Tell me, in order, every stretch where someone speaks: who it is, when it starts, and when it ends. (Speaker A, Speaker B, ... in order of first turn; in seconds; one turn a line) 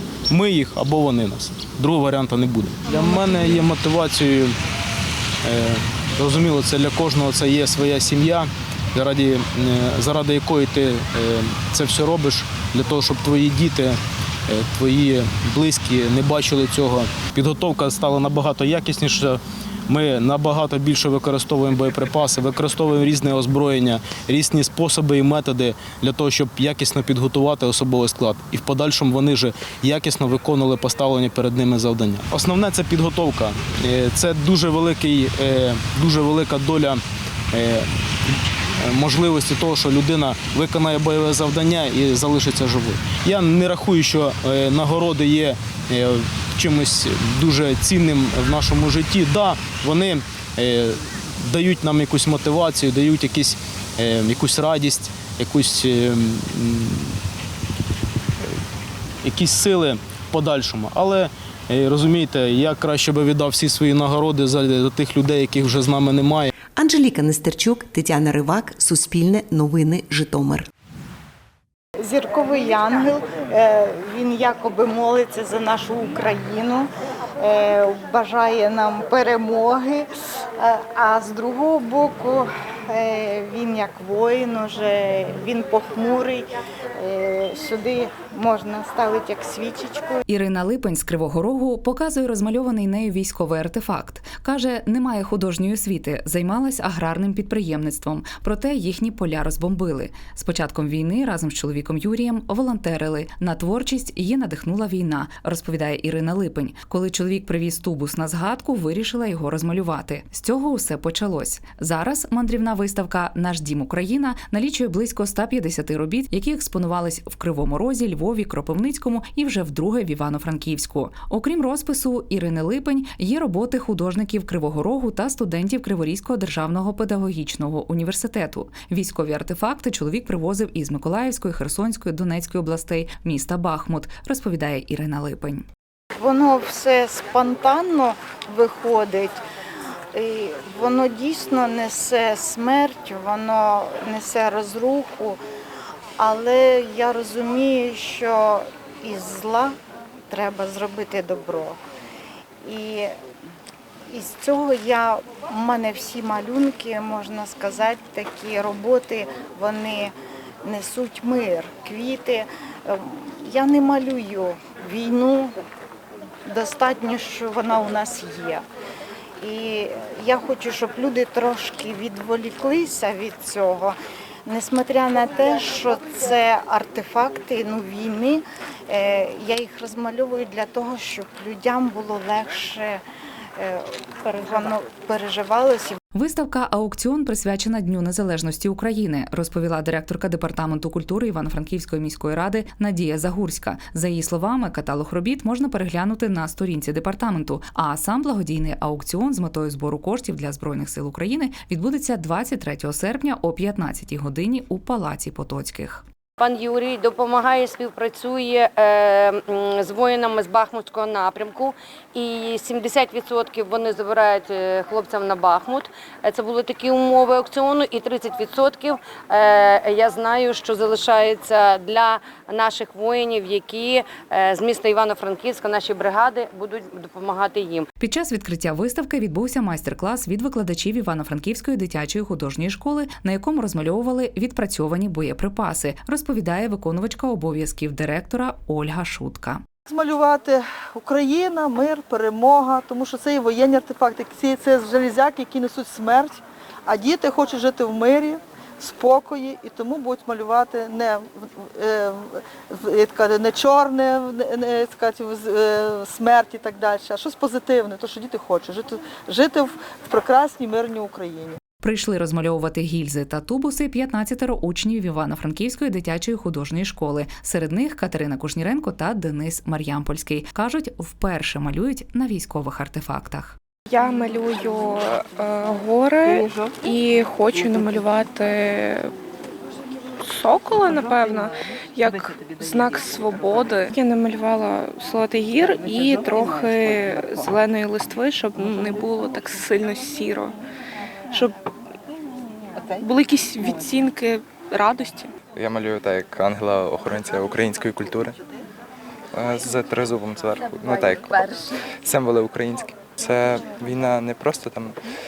Speaker A: 0.3-4.5
Speaker A: 5.4-37.0
Speaker A: 37.5-57.2
Speaker A: 59.2-66.5
Speaker B: 66.7-70.7
Speaker C: 72.0-76.9
Speaker C: 77.4-80.0
Speaker C: 80.6-90.2
Speaker D: 90.3-135.7
Speaker C: 136.2-139.4
Speaker C: 140.1-145.4
Speaker C: 146.2-149.8
Speaker C: 150.3-151.8
Speaker C: 152.6-153.1
Speaker C: 154.1-165.5
Speaker C: 166.5-168.6
Speaker C: 169.4-183.0
Speaker C: 183.6-186.0
Speaker D: 186.1-206.0
Speaker E: 206.4-227.8
Speaker D: 228.0-239.6
Speaker F: 239.9-261.6
Speaker D: 261.8-273.6
Speaker G: 273.9-279.1
Speaker G: 280.2-290.5
Speaker G: 293.0-295.3
Speaker H: 295.5-298.3
Speaker H: 299.3-301.5
Speaker H: 302.0-304.9